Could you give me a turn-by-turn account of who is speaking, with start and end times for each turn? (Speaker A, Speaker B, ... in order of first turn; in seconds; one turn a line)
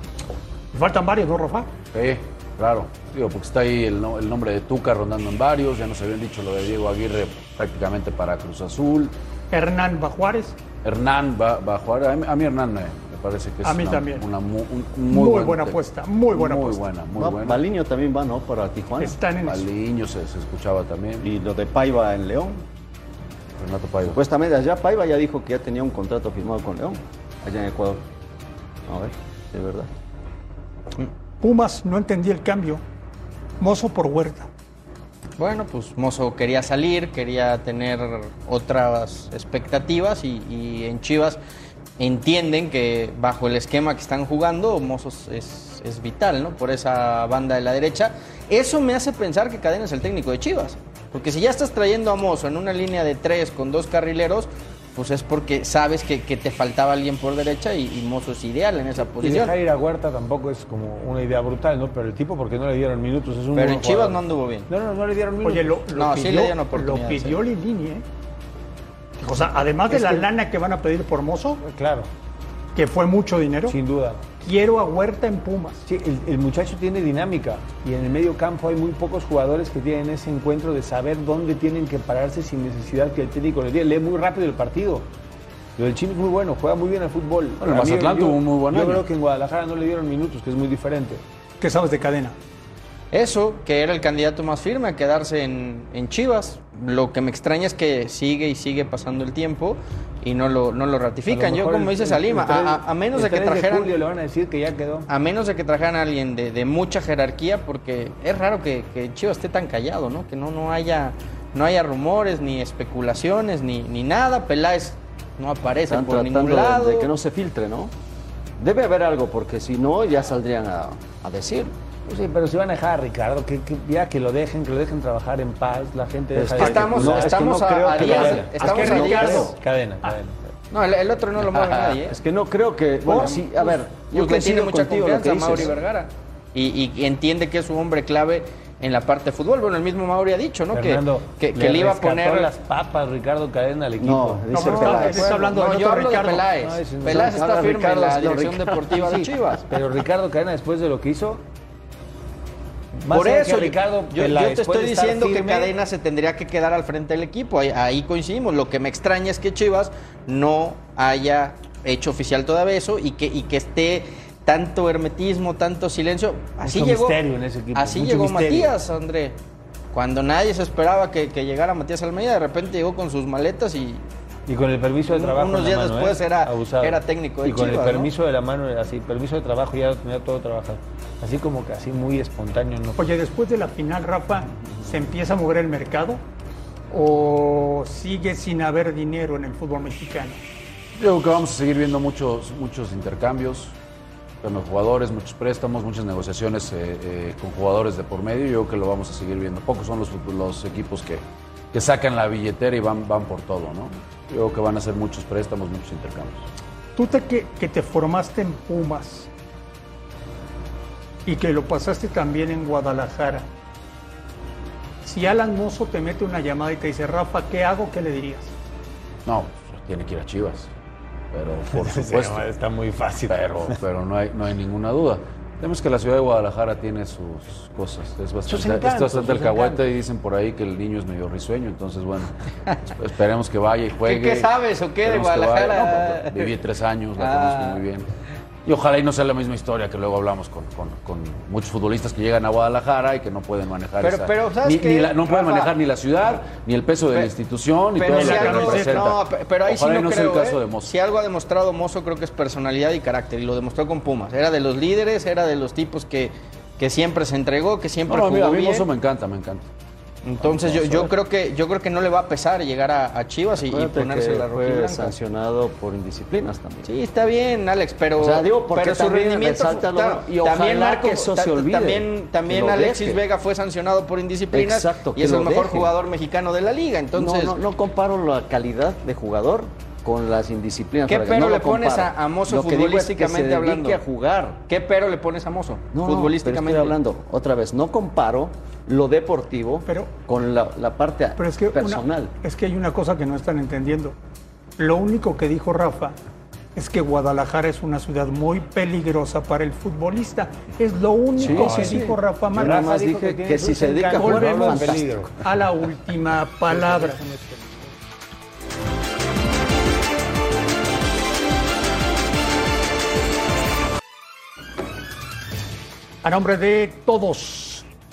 Speaker A: 0.7-1.7
Speaker B: 1.9-9.1
Speaker A: 9.5-10.6
Speaker B: 10.8-17.6
Speaker A: 13.6-14.2
Speaker A: 15.1-16.8
Speaker C: 17.1-19.2
Speaker A: 19.0-19.6
Speaker B: 19.4-21.2
Speaker C: 21.2-22.6
Speaker B: 23.6-24.2
Speaker C: 24.1-28.0
Speaker C: 28.9-29.9
Speaker A: 31.4-32.8
Speaker A: 33.6-34.5
Speaker D: 35.4-41.4
Speaker D: 42.0-59.5
Speaker E: 59.2-65.9
Speaker D: 63.5-64.7
Speaker A: 65.4-68.0
Speaker D: 65.9-67.4
Speaker A: 69.2-71.6
Speaker E: 69.9-70.3
Speaker E: 71.6-72.1
Speaker A: 72.7-73.8
Speaker E: 73.7-74.2
Speaker A: 74.4-75.8
Speaker E: 75.8-85.1
Speaker E: 85.8-91.2
Speaker B: 87.6-89.0
Speaker A: 91.6-92.3
Speaker D: 93.1-104.0
Speaker E: 101.3-105.1
Speaker D: 105.1-117.1
Speaker C: 115.8-117.9
Speaker C: 118.6-121.7
Speaker E: 122.0-130.4
Speaker C: 126.3-129.5
Speaker D: 126.5-129.5
Speaker A: 128.1-130.1
Speaker D: 130.7-132.2
Speaker C: 131.7-135.8
Speaker E: 133.1-133.3
Speaker D: 134.0-142.5
Speaker E: 140.7-145.5
Speaker C: 144.0-145.5
Speaker A: 144.5-146.5
Speaker D: 145.5-149.8
Speaker E: 146.6-147.4
Speaker C: 147.1-149.3
Speaker E: 149.0-151.4
Speaker E: 153.0-155.7
Speaker D: 153.1-167.2
Speaker E: 166.6-168.7
Speaker D: 167.7-169.4
Speaker D: 169.9-174.0
Speaker E: 174.5-183.0
Speaker D: 175.1-178.1
Speaker A: 182.9-186.2
Speaker A: 186.9-190.4
Speaker B: 190.9-193.8
Speaker B: 194.4-206.5
Speaker A: 206.9-209.3
Speaker A: 211.2-213.5
Speaker A: 215.0-218.5
Speaker B: 219.2-220.7
Speaker B: 221.3-222.4
Speaker E: 221.7-223.8
Speaker B: 223.3-232.3
Speaker E: 228.5-229.8
Speaker B: 232.9-238.1
Speaker D: 234.0-236.5
Speaker D: 237.2-237.8
Speaker B: 238.6-250.9
Speaker D: 244.0-245.7
Speaker D: 247.9-258.9
Speaker A: 248.1-249.0
Speaker B: 258.1-259.7
Speaker D: 260.2-265.1
Speaker B: 260.4-261.1
Speaker C: 263.6-266.9
Speaker D: 266.8-277.6
Speaker C: 268.2-273.2
Speaker C: 274.5-275.9
Speaker C: 277.1-284.6
Speaker D: 281.1-284.0
Speaker D: 284.7-287.0
Speaker C: 285.9-292.3
Speaker A: 289.9-290.1
Speaker A: 291.4-294.1
Speaker A: 294.8-296.2
Speaker A: 296.8-302.8
Speaker E: 301.4-305.3
Speaker C: 301.4-302.0
Speaker C: 302.5-305.1
Speaker A: 304.1-307.2
Speaker E: 306.7-307.9
Speaker A: 316.2-317.9